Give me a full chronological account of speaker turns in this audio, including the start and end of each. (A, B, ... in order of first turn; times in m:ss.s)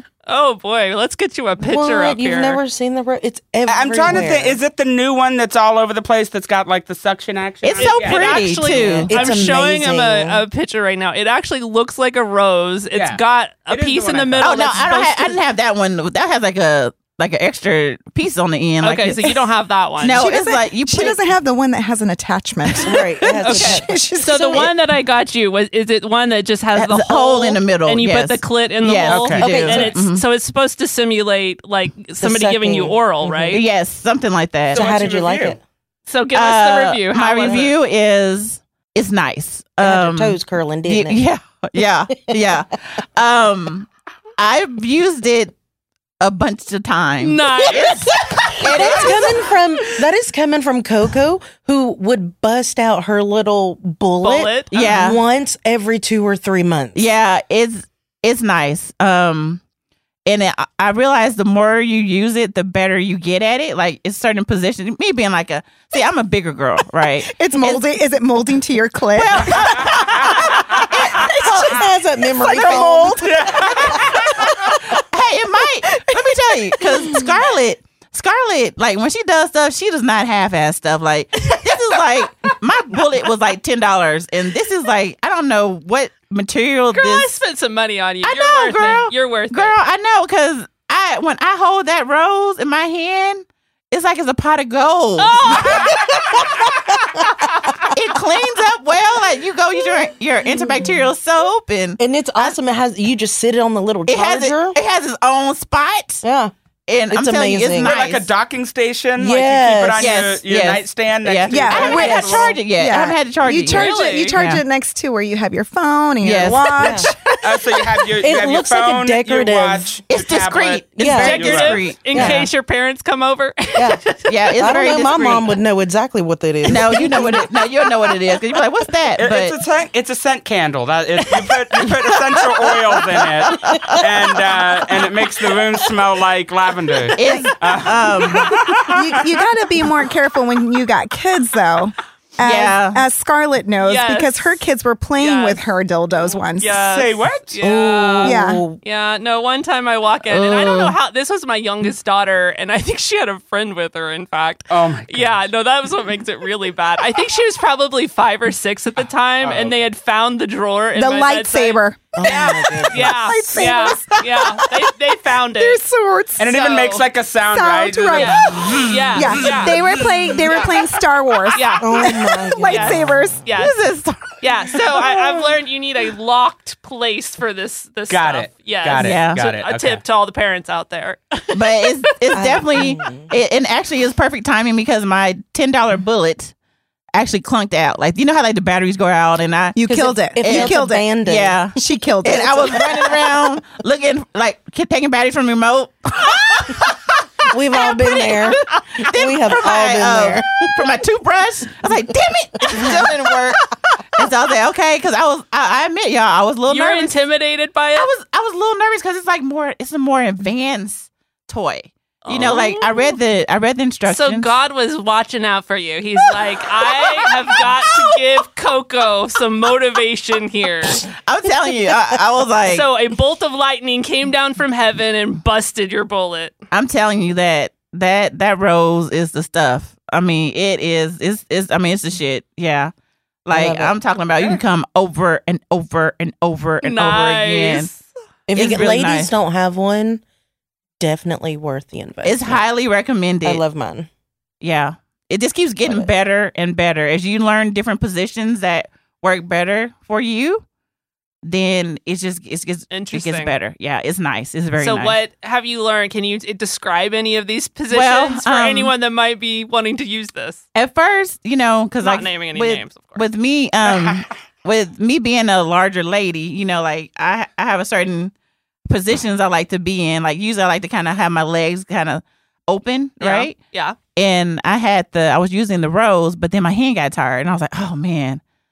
0:00.3-0:02.6 A
0:01.6-0:04.6 B
0:03.7-0:08.6 C
0:07.6-0:09.2 D
0:07.8-0:15.4 A
0:08.7-0:10.4 B
0:12.9-0:14.6 C
0:14.4-0:19.4 D
0:18.8-0:20.3 A
0:20.0-0:21.2 D
0:20.1-0:24.7 E
0:22.8-0:24.0 B
0:23.4-0:33.6 A
0:23.5-0:23.8 D
0:26.8-0:30.2 D
0:29.1-0:29.5 C
0:29.4-0:29.9 B
0:32.2-0:33.6 B
0:33.5-0:34.9 D
0:34.7-0:35.6 C
0:34.7-0:35.6 B
0:36.1-0:37.7 A
0:36.3-0:45.6 D
0:39.8-0:41.2 B
0:46.2-0:49.5 D
0:47.2-0:48.1 A
0:47.7-0:48.0 C
0:48.5-0:57.0 B
0:54.2-0:54.7 A
0:54.7-0:55.2 D
0:57.0-0:59.6 D
1:00.3-1:07.8 D
1:07.2-1:09.9 E
1:09.2-1:27.3 D
1:11.2-1:11.7 E
1:11.3-1:15.0 B
1:13.2-1:14.3 C
1:26.9-1:29.8 A
1:28.2-1:36.1 D
1:35.2-1:36.0 A
1:35.8-1:37.3 B
1:37.9-1:42.6 D
1:42.0-1:44.8 B
1:44.1-1:46.2 D
1:46.2-1:46.5 B
1:46.9-1:48.3 D
1:47.1-1:47.9 B
1:47.8-1:52.6 C
1:49.2-1:50.2 B
1:50.0-1:54.6 D
1:51.5-1:57.8 E
1:51.9-1:52.4 B
1:53.7-1:54.4 A
1:56.2-1:57.0 D
1:56.4-1:57.1 B
1:57.4-2:02.0 C
1:58.2-2:00.0 B
2:00.1-2:02.5 D
2:01.0-2:01.4 B
2:01.2-2:04.3 A
2:02.1-2:02.5 B
2:03.8-2:04.0 B
2:04.3-2:05.5 D
2:04.6-2:07.5 B
2:06.7-2:09.6 D
2:06.9-2:07.4 A
2:09.2-2:19.0 C
2:13.5-2:14.0 D
2:13.7-2:14.0 B
2:17.2-2:18.6 D
2:18.9-2:26.8 E
2:22.4-2:23.0 D
2:23.8-2:24.6 A
2:25.2-2:25.6 A
2:26.2-2:45.8 A
2:26.8-2:27.6 C
2:27.6-2:28.8 B
2:28.2-2:28.6 E
2:30.3-2:31.0 D
2:34.7-2:35.4 C
2:39.4-2:39.7 C
2:41.0-2:44.7 E
2:42.1-2:44.0 B
2:45.4-2:46.5 E
2:46.4-2:48.9 C
2:46.4-2:47.0 A
2:47.5-2:53.4 E
2:48.1-2:49.8 A
2:51.5-2:53.8 A
2:51.8-2:53.3 B
2:53.5-2:54.4 D
2:54.4-3:01.9 A
2:58.1-3:00.0 C
2:59.0-2:59.5 D
3:01.5-3:06.5 D
3:02.3-3:03.3 B
3:07.1-3:09.8 D
3:09.8-3:11.1 E
3:09.9-3:11.7 B
3:10.4-3:17.0 D
3:11.8-3:13.1 E
3:17.5-3:20.7 B
3:17.9-3:19.1 A
3:17.9-3:18.3 D
3:19.0-3:23.6 D
3:22.7-3:23.1 B
3:24.2-3:27.2 D
3:26.7-3:28.1 A
3:28.0-3:34.5 D
3:32.2-3:33.2 A
3:34.1-3:41.0 A
3:41.0-3:42.9 D
3:42.6-3:46.6 A
3:46.7-3:52.9 D
3:53.5-3:57.9 D
3:53.5-3:53.9 B
3:56.8-3:58.1 A
3:58.5-4:00.2 B
3:58.6-3:59.3 D
4:01.0-4:02.6 B
4:02.2-4:03.6 D
4:03.4-4:04.1 B
4:04.6-4:10.6 D
4:11.4-4:15.2 D
4:12.9-4:13.6 A
4:14.8-4:20.6 A
4:17.9-4:18.9 D
4:20.8-4:28.3 D
4:22.0-4:23.2 A
4:28.9-4:33.6 D
4:33.2-4:34.0 A
4:34.2-4:38.4 D